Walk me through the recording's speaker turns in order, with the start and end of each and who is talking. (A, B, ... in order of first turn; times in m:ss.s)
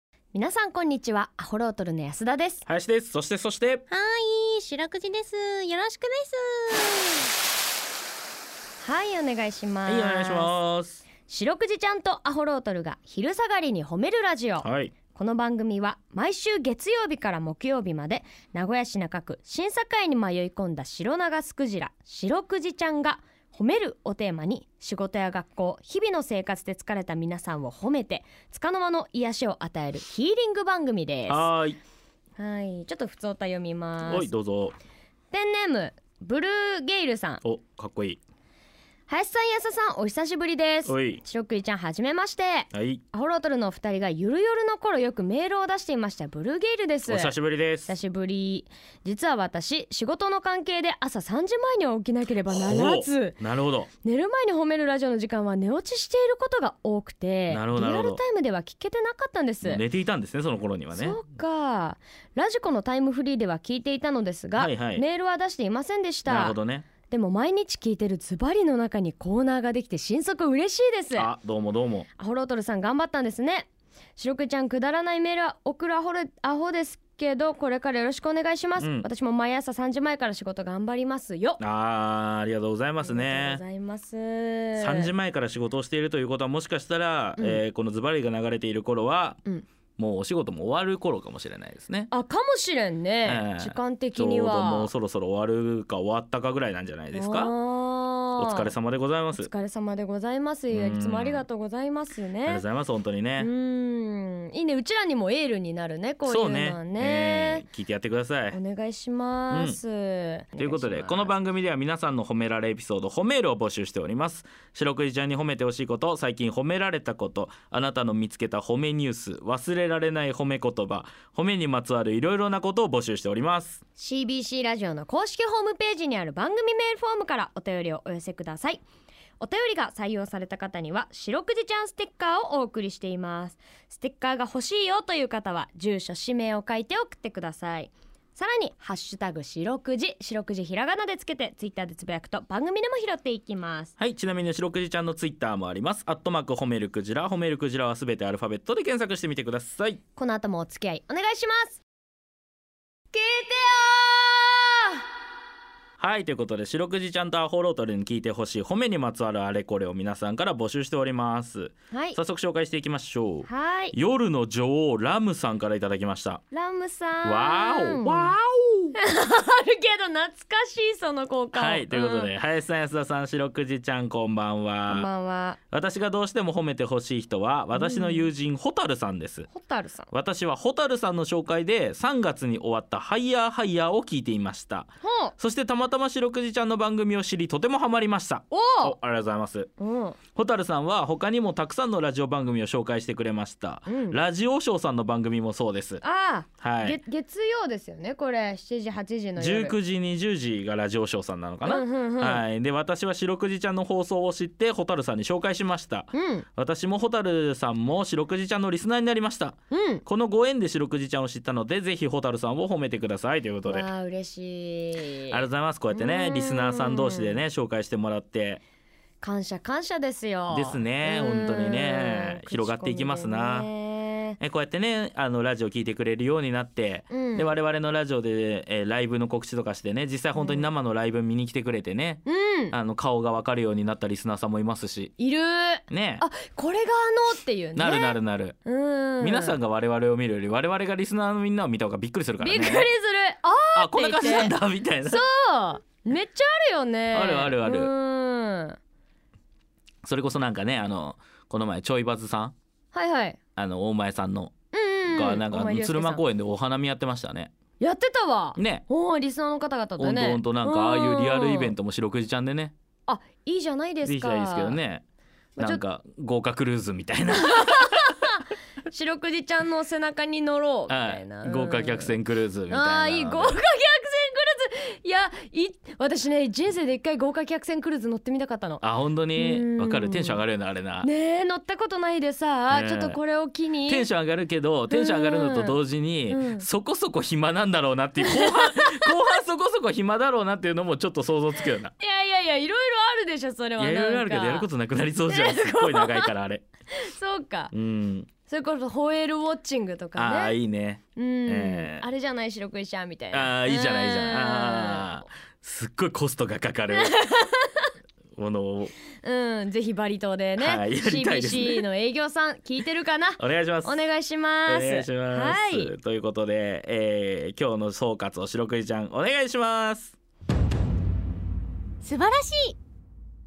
0:00.3-0:02.6 A
0:02.7-0:03.8 B
0:03.9-0:07.3 C
0:08.8-0:10.5 A
0:09.9-0:11.0 B
0:11.3-0:31.5 A
0:14.6-0:15.0 B
0:31.3-0:31.8 B
0:32.4-0:34.3 A
0:34.0-0:34.8 B
0:35.3-0:37.4 A
0:37.4-0:38.2 B
0:39.1-0:47.4 A
0:40.9-0:41.2 B
0:42.7-0:43.0 B
0:47.1-0:47.9 B
0:47.9-0:53.4 A
0:52.5-0:53.9 B
0:54.0-0:59.8 A
0:57.5-0:58.2 B
0:59.6-1:01.2 B
1:00.9-1:06.6 A
1:04.6-1:05.0 B
1:06.3-1:06.9 B
1:07.1-1:11.3 A
1:11.2-1:12.1 B
1:12.2-1:21.6 A
1:18.8-1:19.1 B
1:21.6-1:23.6 B
1:23.0-1:25.1 A
1:24.8-1:29.4 B
1:27.4-1:27.6 A
1:30.0-1:32.1 B
1:32.1-1:34.9 A
1:33.2-1:37.5 B
1:37.1-1:38.7 A
1:38.4-1:39.5 B
1:39.3-1:42.6 A
1:40.7-1:41.5 B
1:42.4-1:43.5 B
1:43.4-1:47.7 A
1:46.3-1:48.6 B
1:48.5-1:51.4 A
1:49.5-1:49.8 B
1:50.6-2:03.8 B
2:04.0-2:08.8 A
2:09.4-2:23.9 A
2:24.0-2:30.0 B
2:30.2-2:31.8 A
2:33.1-2:35.0 A
2:36.0-2:46.4 B
2:41.9-2:42.2 A
2:43.4-2:44.0 A
2:46.5-2:48.4 A
2:47.2-2:49.0 B
2:49.0-2:52.3 A
2:51.5-2:55.1 B
2:54.9-2:55.6 A
2:55.7-2:59.5 B
2:57.7-2:58.3 A
2:59.5-3:00.1 A
3:00.1-3:09.7 B
3:05.0-3:05.4 A
3:08.5-3:09.0 A
3:09.8-3:10.2 A
3:10.4-3:16.0 B
3:13.9-3:14.2 A
3:16.0-3:19.8 A
3:16.6-3:17.0 B
3:19.4-3:33.9 B
3:21.6-3:22.4 A
3:26.1-3:26.5 A
3:29.7-3:30.0 A
3:33.7-3:37.4 A
3:35.3-3:38.6 B
3:39.2-3:44.4 A
3:40.5-3:43.7 B
3:44.4-3:55.1 B
3:47.1-3:47.5 A
3:50.3-3:50.7 A
3:52.2-3:52.8 A
3:55.2-3:59.6 A
3:55.9-3:56.2 B
3:57.8-3:58.6 B
3:59.2-4:02.9 B
4:02.4-4:08.8 A
4:03.8-4:05.2 B
4:07.1-4:07.9 B
4:10.0-4:12.5 B
4:12.9-4:13.4 A
4:13.6-4:14.5 B
4:14.7-4:16.2 A
4:15.1-4:17.5 B
4:17.8-4:21.7 A
4:18.6-4:18.8 B
4:20.0-4:22.7 B
4:23.1-4:24.8 A
4:24.0-4:25.0 B
4:25.6-4:25.8 A
4:25.6-4:28.1 B
4:27.4-4:32.2 A
4:30.9-4:33.6 B
4:32.7-4:38.8 A
4:38.8-4:41.1 B
4:39.4-4:40.4 A
4:41.0-4:44.1 A
4:42.7-4:43.2 B
4:43.9-4:51.9 B
4:44.9-4:46.6 A
4:48.2-4:49.1 A
4:52.0-4:54.7 A
4:53.8-4:56.6 B
4:55.3-4:56.3 A
4:56.9-4:57.7 A
4:57.7-4:58.3 B
4:58.5-5:00.6 A
5:00.2-5:02.1 B
5:01.2-5:05.3 A
5:03.3-5:07.2 B
5:06.9-5:07.9 A
5:08.4-5:08.9 B
5:09.2-5:15.9 A
5:10.6-5:11.8 B
5:13.4-5:14.1 B
5:14.7-5:20.2 B
5:22.0-5:22.7 C